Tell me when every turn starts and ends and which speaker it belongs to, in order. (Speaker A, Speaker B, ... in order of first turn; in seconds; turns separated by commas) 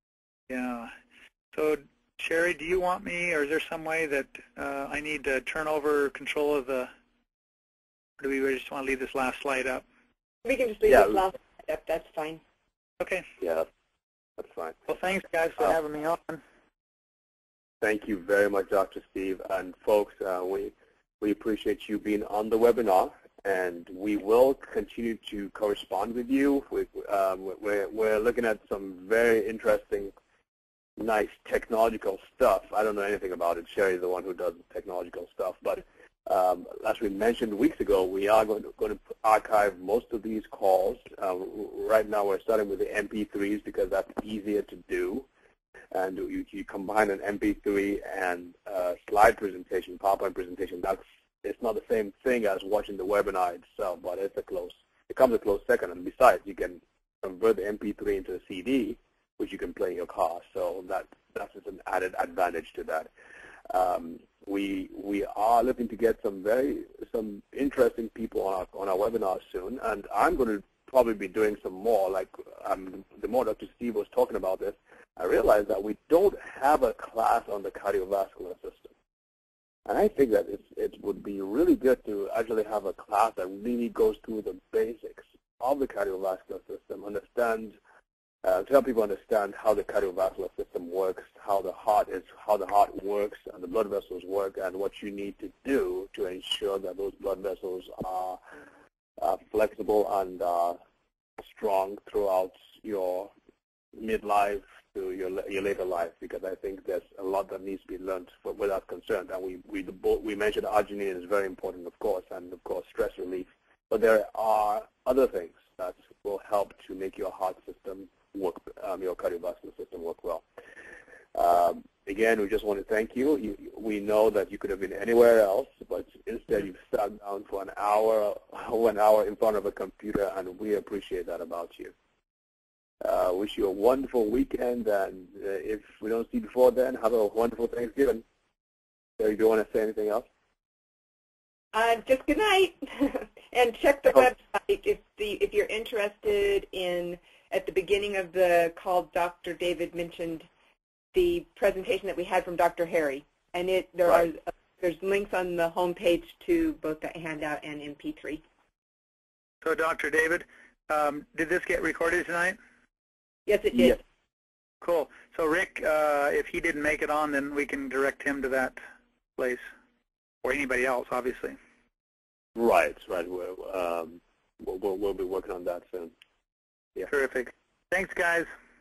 Speaker A: 0.5-0.9, Speaker A: 1.5-6.9, Speaker A: 8.2-9.8, Speaker B: 10.4-12.4, Speaker C: 10.9-11.2, Speaker A: 13.0-13.3, Speaker C: 13.4-13.7, Speaker C: 14.4-14.8, Speaker A: 14.9-16.4, Speaker C: 17.8-30.1, Speaker C: 31.0-45.2, Speaker C: 45.9-63.1, Speaker C: 63.7-78.9, Speaker C: 79.8-87.8, Speaker C: 88.4-98.4, Speaker C: 99.2-100.8, Speaker C: 101.4-103.3, Speaker C: 103.9-120.4, Speaker C: 121.3-131.9, Speaker C: 133.0-138.2, Speaker C: 139.2-140.2, Speaker B: 141.7-150.5, Speaker B: 151.1-158.4, Speaker A: 159.6-162.6, Speaker B: 163.5-164.0, Speaker A: 164.8-168.8, Speaker A: 169.4-169.7, Speaker A: 170.4-171.6, Speaker C: 172.6-176.1, Speaker A: 177.1-178.5